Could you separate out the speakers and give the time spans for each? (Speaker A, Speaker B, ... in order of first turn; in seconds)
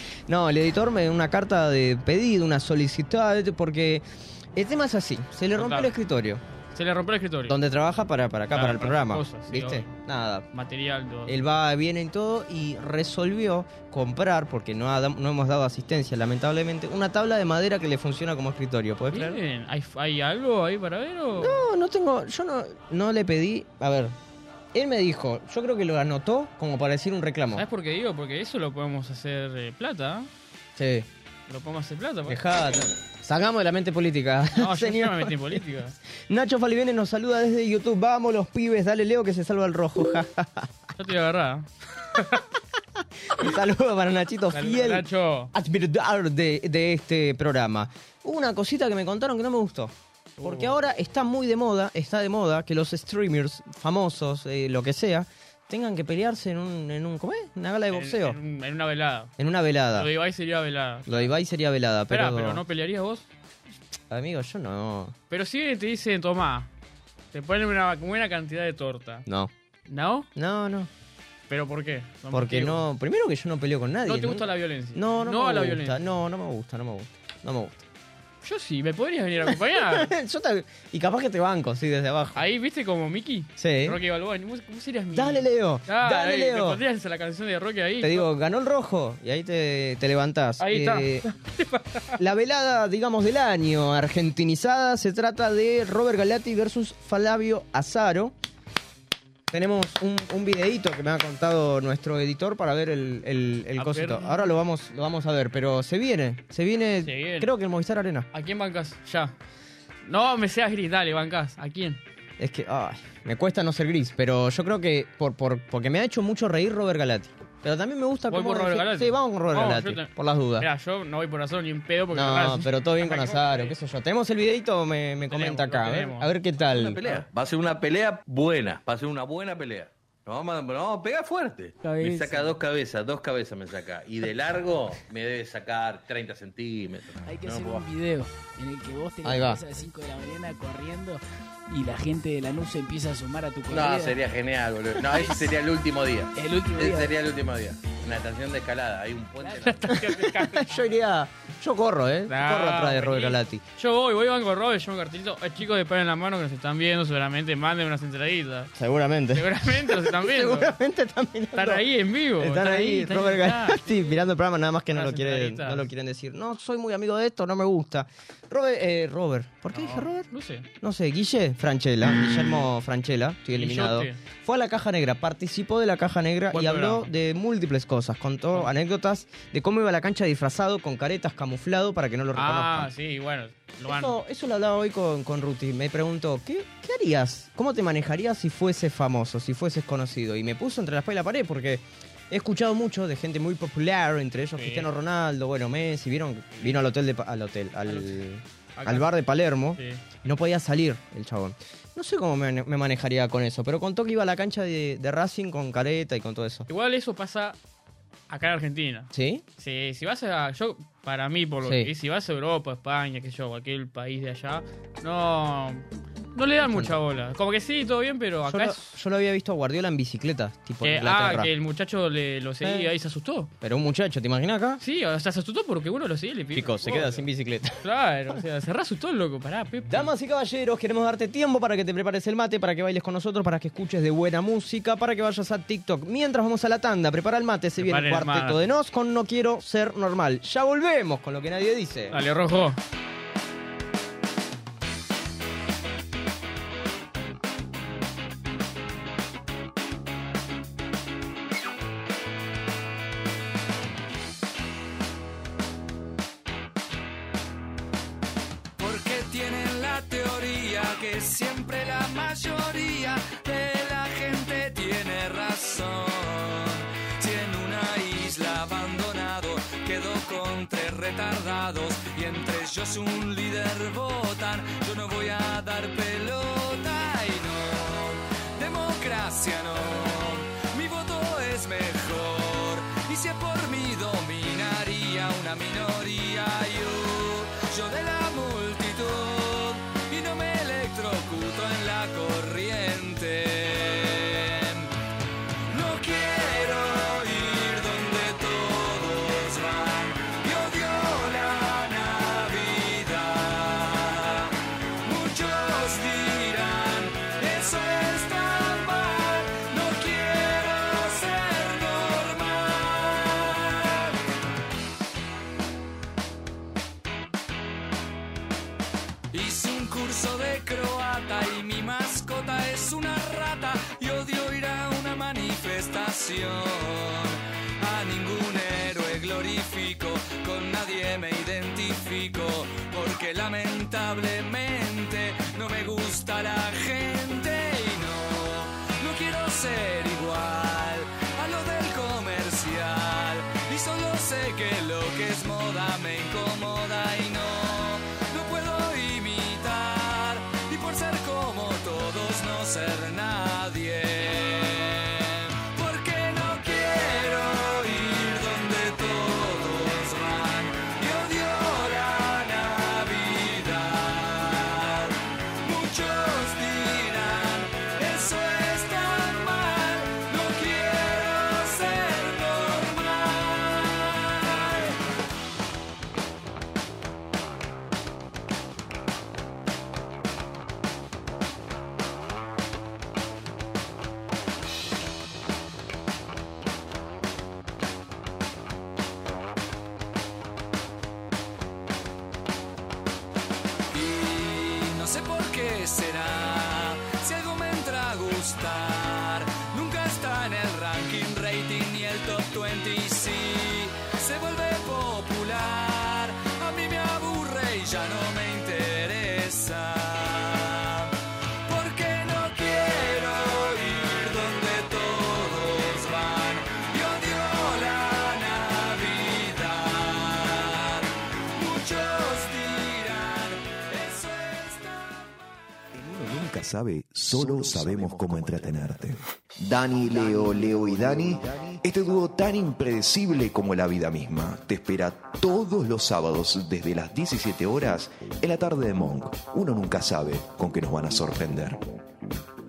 Speaker A: 0.3-6.4, 7.5-10.5, 11.3-19.4, 21.4-24.1, 24.7-27.6, 30.8-31.1, 32.3-35.3, 36.3-40.7, 43.3-58.4, 59.4-60.1, 61.1-62.6, 64.1-65.1, 70.4-70.9, 72.3-77.8, 79.5-82.4, 83.6-84.0, 85.1-86.8, 88.0-91.2, 92.2-98.3, 99.5-108.3, 112.4-120.7, 122.1-127.0, 139.2-139.6, 150.0-153.6, 158.8-161.8, 162.4-170.2, 170.8-182.9, 183.9-206.7, 209.1-209.4, 211.7-211.9, 216.6-217.0, 218.5-221.5, 222.6-222.9, 223.6-224.8, 226.5-227.8, 229.9-242.2
Speaker B: 5.5-5.9, 6.7-7.6, 8.5-9.9, 10.5-11.4, 19.1-21.6, 27.5-30.3, 31.5-32.4, 34.5-36.0, 41.0-42.4, 44.5-45.5, 50.4-50.7, 57.9-59.3, 60.0-61.3, 62.1-63.2, 65.3-66.7, 67.3-69.2, 69.9-70.3, 71.5-72.8, 74.0-76.0, 78.4-80.1, 82.3-88.3, 90.6-92.2, 103.8-104.5, 107.0-107.5, 108.3-109.3, 110.0-112.0, 118.3-123.8, 125.3-126.3, 149.6-150.7, 152.3-158.7, 159.3-160.8, 161.5-164.2, 164.9-165.9, 169.7-170.7, 173.5-174.2, 176.5-177.1, 182.3-184.2, 194.6-194.9, 197.9-198.1, 198.8-199.2, 199.8-200.0, 206.7-207.6, 208.3-218.9, 220.8-223.5, 224.8-227.2, 227.8-230.1, 237.8-238.6, 242.1-242.8
Speaker C: 126.6-137.9, 143.7-149.9
Speaker D: 131.8-132.6, 137.2-144.2, 144.9-145.4, 146.4-147.1, 149.4-149.7
Speaker E: 258.8-294.9, 295.7-314.2, 319.3-375.0, 393.9-411.1, 411.6-425.2
Speaker F: 425.9-441.8